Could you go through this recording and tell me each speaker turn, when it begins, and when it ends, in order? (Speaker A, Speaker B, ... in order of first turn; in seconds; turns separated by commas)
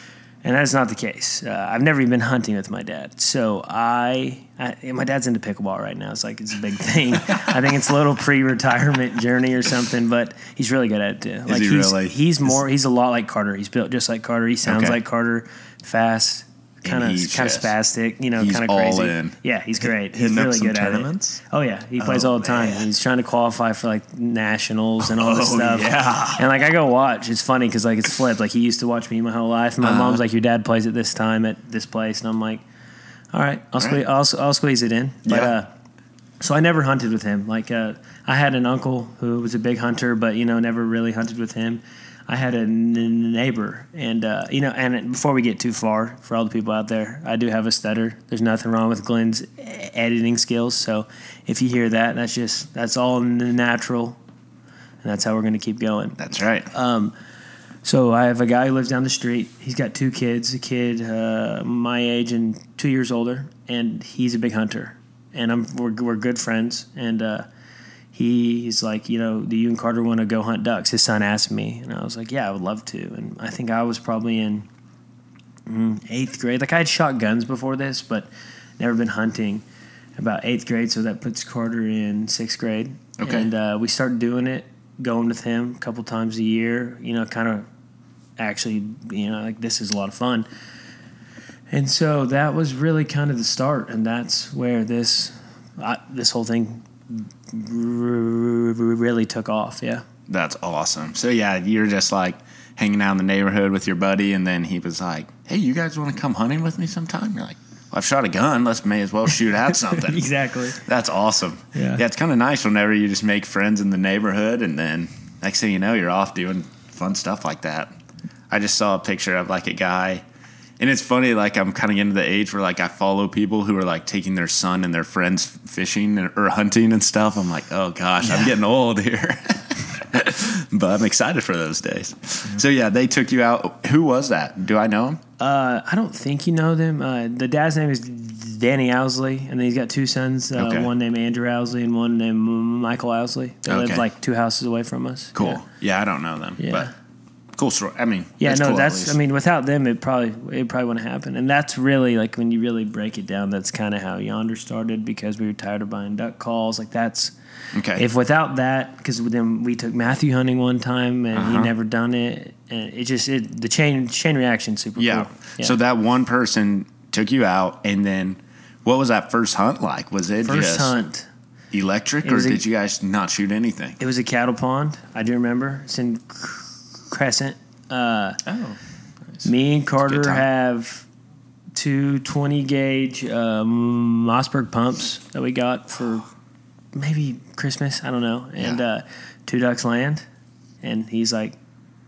Speaker A: 0.4-32.6, Speaker B: 11.5-12.2, Speaker B: 14.7-15.0, Speaker B: 16.8-17.7, Speaker B: 18.4-19.4, Speaker C: 20.1-21.4, Speaker C: 22.0-22.9, Speaker C: 25.0-26.4, Speaker B: 29.8-30.2, Speaker A: 33.3-35.7, Speaker B: 33.8-34.0, Speaker B: 35.2-35.5, Speaker A: 36.4-54.2, Speaker A: 55.0-56.2, Speaker B: 56.2-56.7, Speaker A: 56.7-57.1, Speaker A: 57.8-67.5, Speaker A: 68.1-74.7, Speaker A: 75.7-79.6, Speaker A: 80.2-87.7, Speaker B: 83.2-83.5, Speaker A: 88.4-90.5, Speaker A: 91.7-100.0, Speaker B: 100.3-110.3, Speaker A: 109.8-110.8, Speaker B: 110.8-117.9, Speaker A: 111.7-112.0, Speaker B: 118.5-120.2, Speaker B: 120.8-135.2, Speaker A: 135.4-145.6, Speaker B: 140.6-140.9, Speaker B: 143.7-144.0, Speaker B: 145.3-146.9, Speaker A: 146.6-146.9, Speaker B: 147.6-149.2, Speaker A: 148.4-157.3, Speaker B: 157.7-158.0, Speaker A: 157.9-165.8, Speaker B: 161.3-161.7, Speaker B: 165.0-170.9, Speaker A: 170.4-171.3, Speaker B: 171.7-174.0, Speaker A: 172.2-172.6, Speaker A: 174.0-178.4, Speaker C: 178.5-178.8, Speaker A: 179.4-181.1, Speaker B: 180.0-180.4, Speaker A: 181.7-186.3, Speaker A: 186.9-190.2, Speaker A: 190.8-191.6